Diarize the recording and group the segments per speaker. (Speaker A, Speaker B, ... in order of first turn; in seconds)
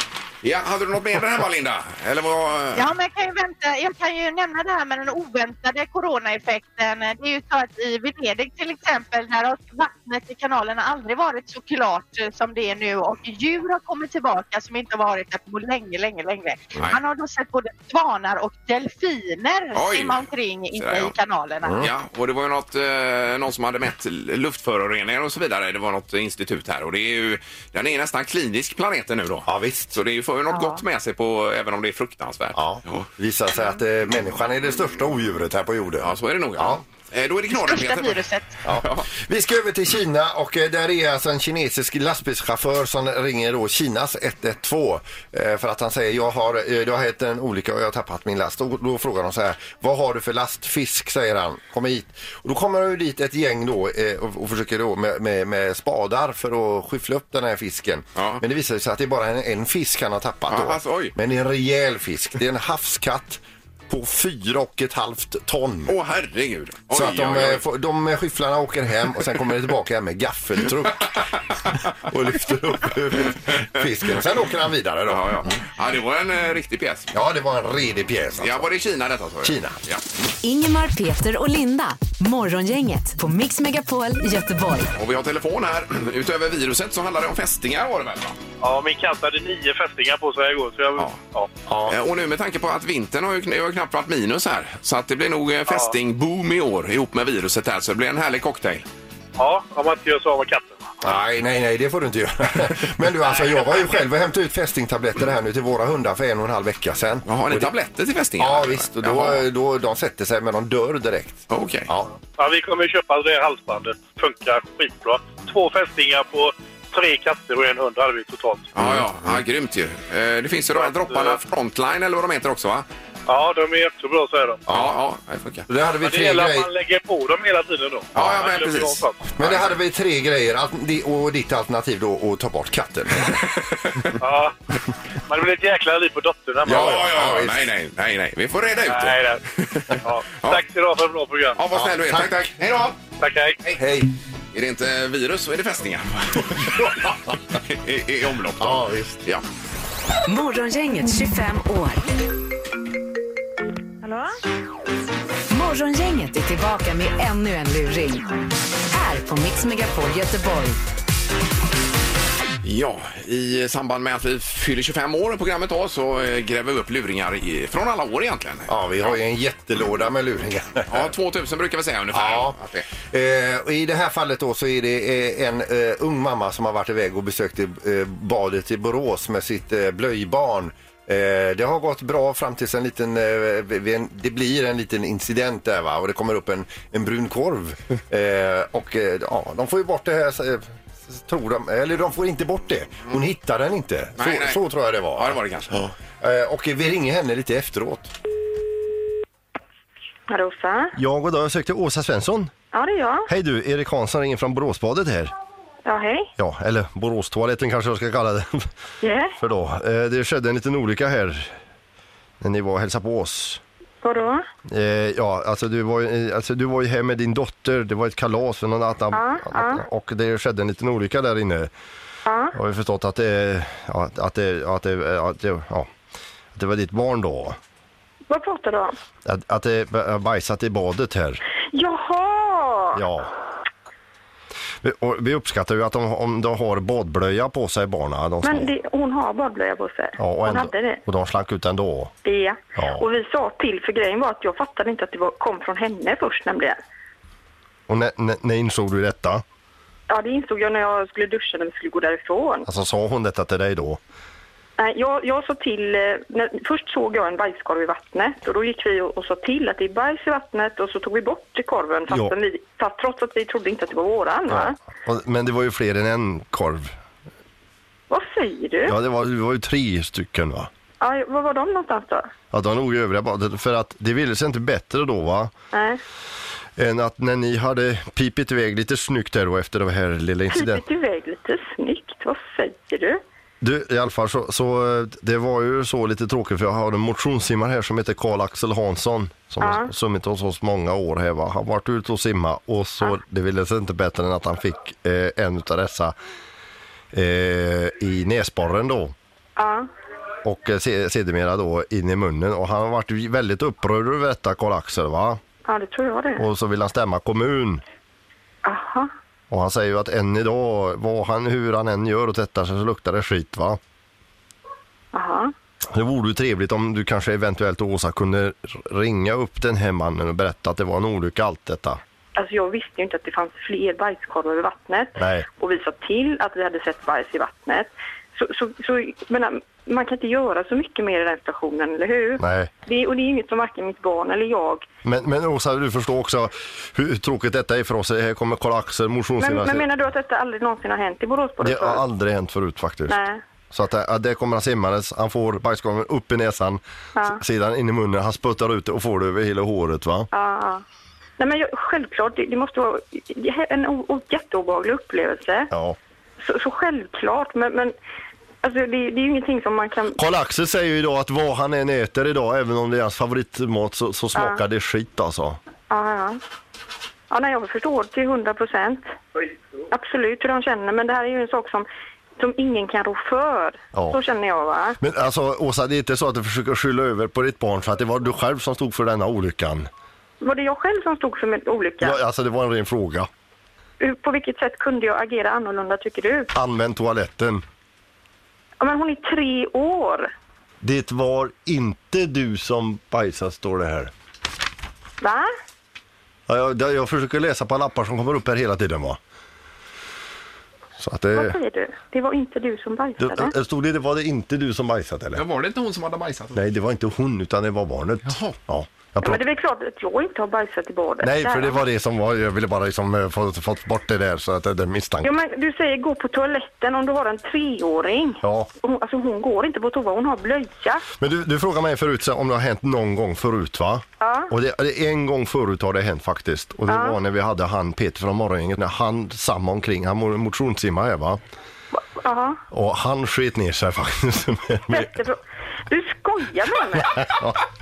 Speaker A: 0.4-2.9, 19.7-21.1, 21.8-33.1, 36.0-39.1, 58.2-58.4, 60.5-61.1, 65.9-67.6, 75.1-77.1, 78.4-80.0, 85.0-88.4, 91.9-98.8, 107.3-109.4, 111.5-111.9, 118.8-122.9, 124.7-125.7, 128.1-129.8, 133.3-134.1, 136.7-140.6, 141.6-143.0, 144.5-149.4, 162.6-169.2, 170.9-172.9, 194.2-194.6, 195.1-195.7, 405.4-406.6, 408.3-408.6
Speaker B: 2.8-21.8, 37.5-38.6
Speaker C: 21.6-21.9, 29.5-30.0, 32.5-36.8, 38.6-66.0, 66.9-71.3, 71.9-75.6, 77.1-78.7, 79.4-79.8, 91.7-92.0, 101.0-107.7, 108.4-112.1, 124.7-125.0, 125.7-126.7, 129.4-133.4, 136.7-137.6, 141.7-142.4, 143.8-144.1, 146.7-147.1, 148.6-149.2, 168.7-171.1, 172.1-198.1
Speaker D: 80.4-84.9, 150.3-152.0, 155.5-158.3, 158.9-160.8
Speaker E: 88.6-91.5, 95.7-95.9, 99.4-100.8, 112.4-118.7, 120.7-121.4, 123.3-124.6, 126.0-129.2, 134.2-134.6, 135.3-137.2, 138.9-139.4, 140.0-141.6, 143.2-143.6
Speaker F: 200.3-201.0, 202.7-203.3, 205.8-206.3, 209.0-209.4, 214.0-214.5, 219.1-219.8, 222.3-222.6, 228.3-228.9, 231.7-233.0, 238.4-241.0, 242.2-246.8, 250.1-252.7, 254.8-264.8, 268.1-268.9, 271.0-272.3, 275.7-276.0, 280.5-283.2, 289.6-289.9, 299.6-299.9, 305.6-306.4, 308.6-309.1, 315.1-315.5, 322.4-334.9, 339.4-342.1, 343.1-343.4, 347.2-347.4, 350.3-350.8, 351.4-355.7, 356.4-357.9, 358.6-360.2, 364.4-364.6, 365.9-366.4, 367.3-369.2, 369.9-375.0, 380.4-382.2, 384.0-386.5, 388.8-390.3, 395.2-395.5, 401.3-403.5, 409.2-411.8, 415.2-421.1, 424.2-424.5, 426.9-427.2, 432.0-432.6, 434.9-437.2
Speaker G: 201.0-202.5, 203.3-205.3, 206.4-208.7, 209.4-211.6, 212.4-213.6, 214.7-221.7, 222.5-225.9, 226.6-227.6, 229.2-231.4, 233.0-233.3, 234.8-238.7, 240.2-242.1, 242.8-243.1, 247.9-249.4, 252.6-254.0, 262.1-262.4, 264.5-266.9, 268.9-270.7, 272.5-275.5, 276.8-280.8, 283.6-296.1, 297.1-299.1, 300.4-305.4, 306.4-307.8, 309.5-313.8, 315.9-322.0, 325.2-325.5, 332.4-332.7, 335.1-339.9, 341.6-343.2, 343.7-350.3, 355.7-356.0, 360.2-365.6, 375.0-379.9, 382.0-383.3, 386.6-387.6, 390.8-394.1, 396.5-399.2, 401.0-401.6, 403.2-405.4, 406.5-409.4, 411.2-415.3, 418.4-418.7, 421.2-431.4, 432.7-435.1, 437.2-437.6